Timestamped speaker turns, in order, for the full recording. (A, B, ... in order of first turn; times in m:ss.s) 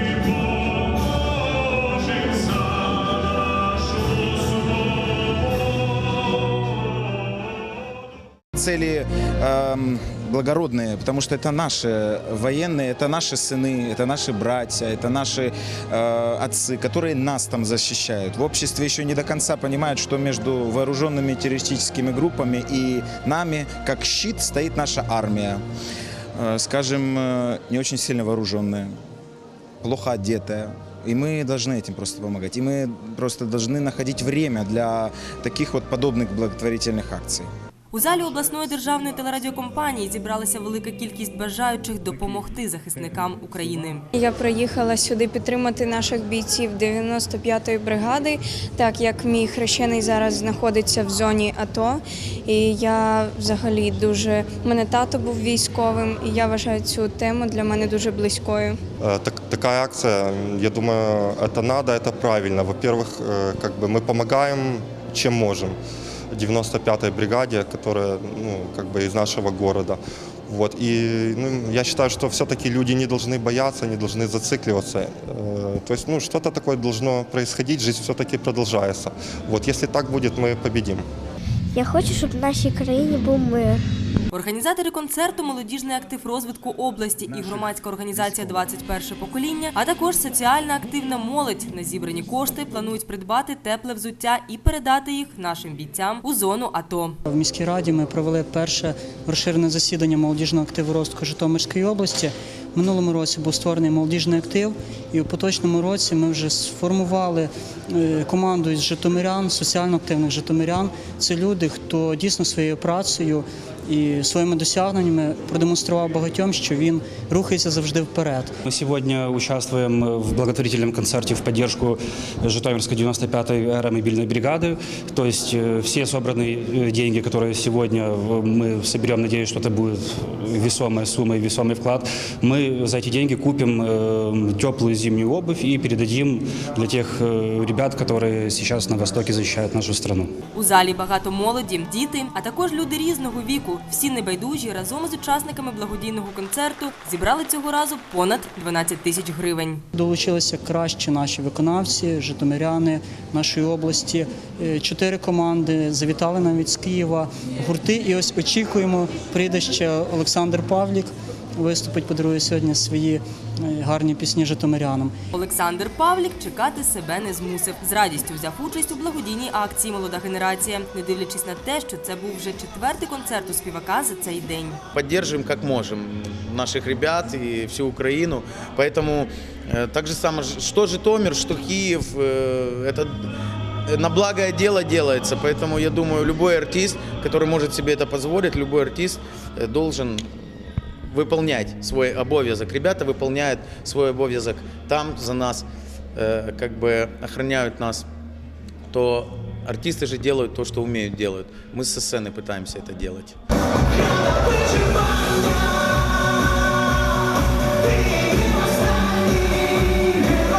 0:08.6-0:25.6 A
0:26.4-0:29.0 A
0:29.8-0:37.5 A
0:37.9-0:44.1 B
0:44.1-0:58.8 C
0:59.0-1:05.8 D
1:06.3-1:21.0 D
1:21.7-1:23.8 E
1:24.3-1:37.2 B
1:27.3-1:28.7 A
1:37.3-1:58.6 F
1:58.6-2:20.3 G
2:20.5-2:29.8 B
2:29.9-2:45.1 F
2:45.3-2:54.8 B
2:54.9-3:03.1 H
3:03.9-3:10.3 H
3:11.1-3:18.1 H
3:18.9-3:23.4 H